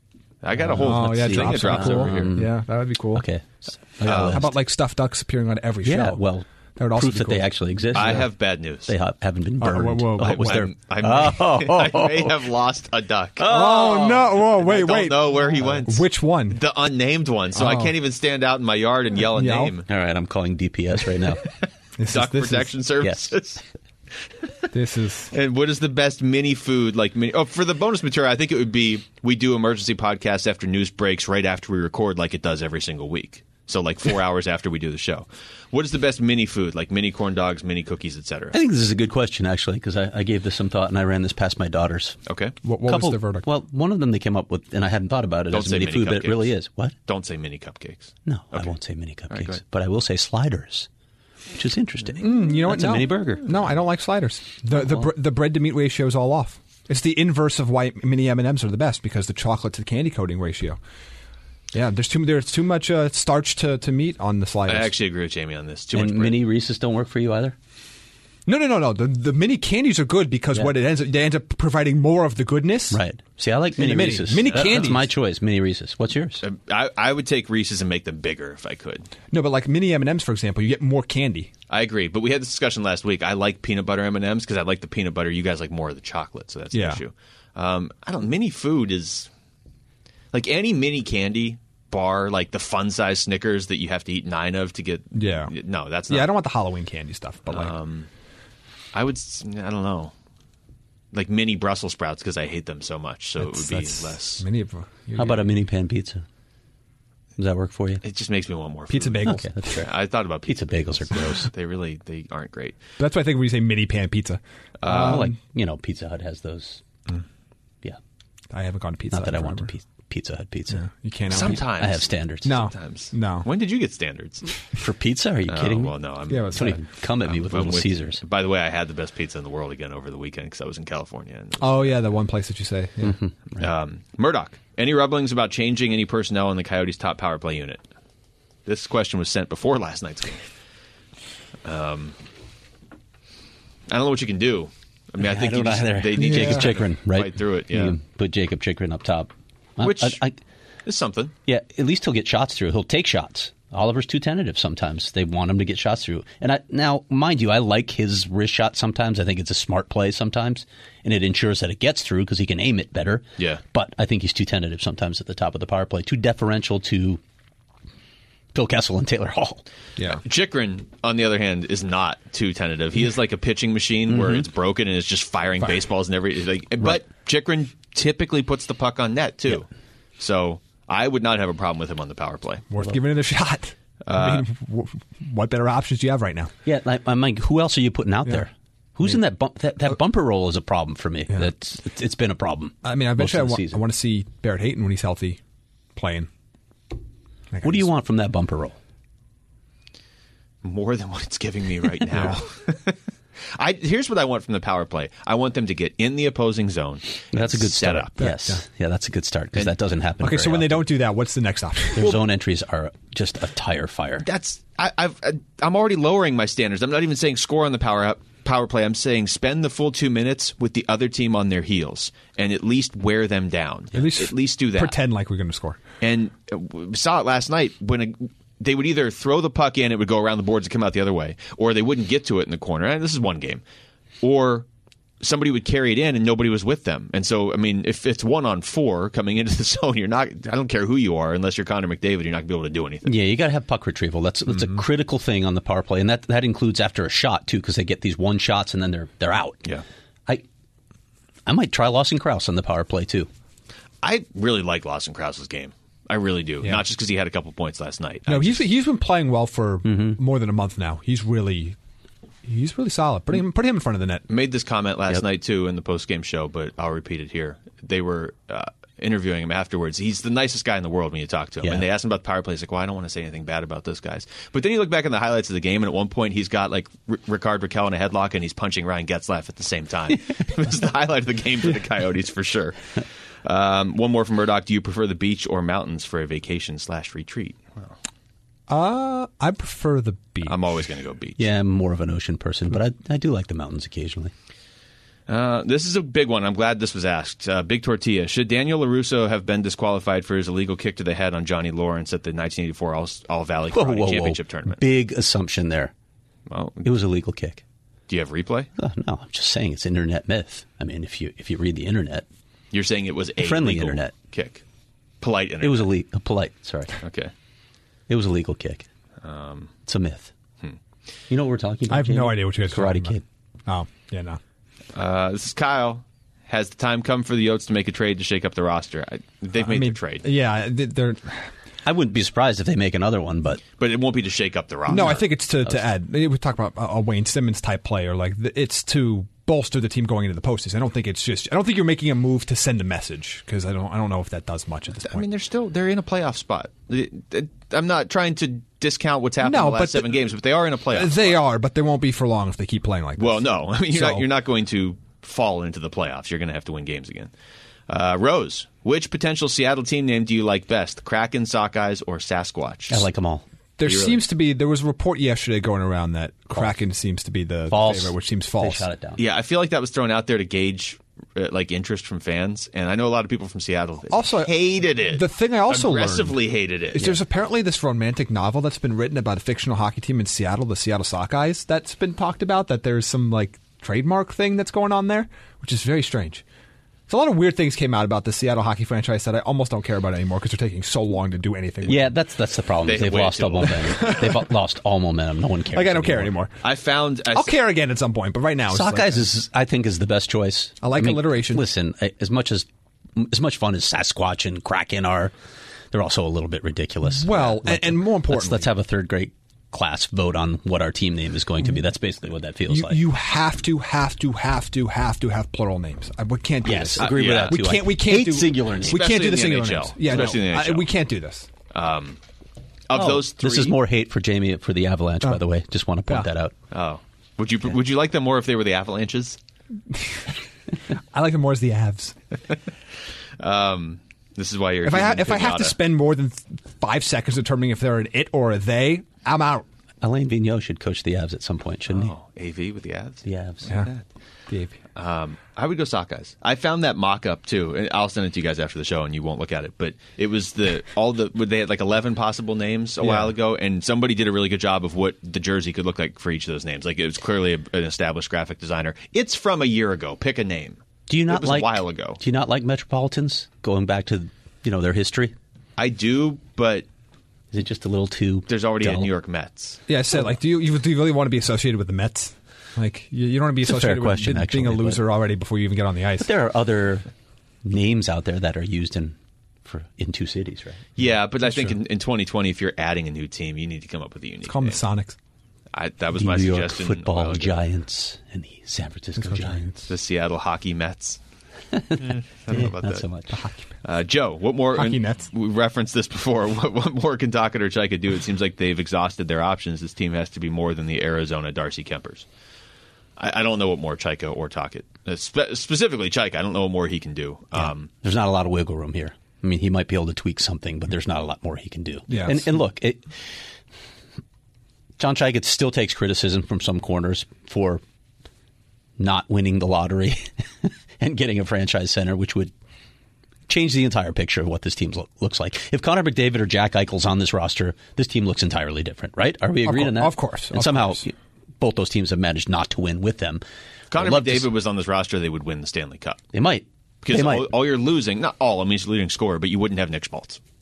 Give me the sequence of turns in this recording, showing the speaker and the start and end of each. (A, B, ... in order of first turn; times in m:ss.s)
0:00.4-0:02.3 A
0:00.6-0:02.5 B
0:00.8-0:03.2 C
0:03.1-0:04.5 B
0:04.0-0:04.4 A
0:04.0-0:06.2 C
0:05.8-0:08.3 B
0:06.8-0:08.2 C
0:07.9-0:08.9 A
0:08.8-0:12.4 B
0:09.6-0:10.6 C
0:10.2-0:13.6 A
0:13.4-0:14.3 B
0:13.4-0:16.6 C
0:14.4-0:19.9 A
0:17.5-0:17.9 C
0:19.3-0:19.7 C
0:19.9-0:21.4 B
0:22.0-0:22.8 C
0:22.0-0:23.6 A
0:23.0-0:23.3 B
0:24.4-0:24.7 A
0:24.7-0:25.3 C
0:25.3-0:38.6 A
0:38.5-0:42.2 B
0:42.2-0:42.6 A
0:42.6-0:43.5 C
0:42.8-0:46.9 B
0:45.5-0:46.5 A
0:47.1-0:48.7 A
0:48.2-0:50.9 B
0:49.3-0:49.6 A
0:51.5-0:53.5 B
0:52.2-1:00.8 C
1:01.7-1:04.9 C
1:04.7-1:06.4 A
1:05.9-1:07.6 B
1:08.4-1:13.0 C
1:12.9-1:16.4 B
1:13.8-1:15.1 C
1:14.4-1:14.9 A
1:16.4-1:19.1 A
1:19.3-1:21.5 C
1:21.7-1:29.3 A
1:26.7-1:27.0 C
1:30.3-1:36.3 A
1:35.1-1:35.5 C
1:36.1-1:37.7 C
1:37.5-1:38.1 A
1:38.9-1:40.1 A
1:41.1-1:44.4 A
1:43.4-1:45.5 C
1:45.2-1:46.2 B
1:47.4-1:48.0 B
1:48.0-1:52.8 A
1:48.9-1:49.5 C
1:49.2-1:49.9 B
1:50.4-1:51.5 B
1:53.0-1:55.4 C
1:54.8-1:55.3 A
1:54.9-1:56.8 B
1:58.5-1:59.7 C
1:59.1-2:00.8 B
2:00.7-2:01.6 C
2:01.3-2:04.5 A
2:01.5-2:02.6 B
2:02.4-2:03.5 C
2:04.7-2:05.9 B
2:05.5-2:12.0 A
2:06.3-2:06.8 C
2:06.5-2:08.2 B
2:11.6-2:13.2 C
2:13.0-2:13.3 B
2:13.6-2:17.8 A
2:18.6-2:20.4 A
2:21.6-2:22.1 A
2:23.9-2:28.0 A
2:25.2-2:30.4 B
2:26.2-2:26.7 C
2:29.8-2:30.2 A
2:30.8-2:31.3 A
2:31.5-2:47.2 B
2:48.5-2:49.6 B
2:50.0-2:59.7 A
2:54.1-2:54.5 B
3:00.2-3:02.7 A
3:02.7-3:06.5 C
3:04.0-3:04.5 A
3:06.6-3:13.8 B
3:12.8-3:15.4 C
3:15.9-3:16.3 C
3:17.5-3:17.9 C
3:17.6-3:18.8 B
3:20.6-3:23.0 A
3:22.1-3:22.4 C
3:23.5-3:28.2 A
3:27.3-3:30.9 B
3:28.2-3:28.6 C
3:30.2-3:32.2 C
3:31.9-3:34.3 B
3:34.2-3:45.0 A
3:43.9-3:45.8 C
3:46.0-3:53.6 A
3:54.2-3:54.6 A
3:55.2-4:03.1 A
4:03.0-4:09.6 B
4:11.5-4:13.3 B
4:14.0-4:18.6 A
4:18.3-4:21.8 C
4:19.8-4:20.2 B
4:22.4-4:24.2 C
4:24.3-4:42.8 A
4:43.4-4:47.9 A
4:48.7-4:50.6 C
4:50.4-4:51.4 A
4:51.4-4:54.3 B
4:55.3-5:04.8 A
5:03.7-5:05.9 B
5:06.5-5:06.9 A
5:06.8-5:07.6 B
5:08.1-5:08.7 A
5:08.8-5:12.2 B
5:12.7-5:14.6 A
5:13.4-5:14.1 B
5:15.2-5:15.9 A
5:15.6-5:16.9 B
5:17.0-5:17.3 A
5:18.1-5:18.9 B
5:19.2-5:19.7 A
5:19.8-5:20.3 B
5:21.3-5:23.2 B
5:21.9-5:24.4 C
5:24.9-5:30.2 A
5:29.6-5:31.5 C
5:31.8-5:33.6 B
5:33.8-5:35.2 A
5:34.9-5:45.2 C
5:35.0-5:35.8 B
5:45.0-5:51.4 A
5:49.4-5:50.2 C
5:50.9-5:54.2 C
5:53.2-5:57.3 A
5:57.9-6:03.1 A
6:02.9-6:03.4 B
6:03.8-6:08.9 C
6:03.8-6:04.2 A
6:07.7-6:09.2 B
6:09.2-6:17.1 A
6:14.1-6:14.5 C
6:15.1-6:16.4 C
6:16.9-6:26.4 C
6:27.1-6:32.2 C
6:31.8-6:36.3 B
6:32.8-6:34.3 A
6:34.0-6:34.3 C
6:35.7-6:36.6 C
6:36.6-6:37.5 A
6:37.3-6:39.2 C
6:38.7-6:45.3 B
6:40.8-6:41.6 C
6:45.9-6:53.0 B
6:47.0-6:48.7 C
6:52.7-7:01.5 C
6:56.6-6:59.0 B
6:57.0-6:57.7 A
6:58.8-7:00.9 A
7:01.7-7:02.2 A
7:02.9-7:03.8 A
7:02.9-7:06.5 B
7:06.7-7:09.4 A
7:11.1-7:12.2 C
7:13.4-7:15.8 A
7:14.8-7:19.6 C
7:20.0-7:22.1 B
7:21.9-7:24.0 A
7:23.2-7:23.8 B
7:24.5-7:24.8 C
7:25.0-7:42.2 A
7:33.0-7:33.3 C
7:41.1-7:45.3 B
7:45.8-7:46.8 A
7:47.5-7:49.1 B
7:48.5-7:49.8 A
7:49.9-7:56.3 C
7:53.6-7:55.0 B
7:56.2-7:57.1 B
7:57.6-8:00.8 B
8:01.0-8:04.8 A
8:01.4-8:01.8 C
8:04.5-8:05.2 C
8:05.7-8:07.6 A
8:06.1-8:09.6 B
8:09.2-8:09.9 C
8:09.9-8:11.2 A
8:11.7-8:13.4 B
8:12.0-8:13.0 A
8:13.3-8:13.7 C
8:13.8-8:22.2 A
8:14.7-8:15.3 C
8:23.2-8:27.9 A
8:27.6-8:33.1 B
8:32.1-8:32.5 C
8:35.0-8:37.8 B
8:39.0-8:42.5 B
8:43.5-8:53.4 B
8:49.6-8:51.1 C
8:53.9-8:56.2 A
8:53.9-8:54.5 B
8:56.3-8:57.5 B
8:57.0-9:00.4 A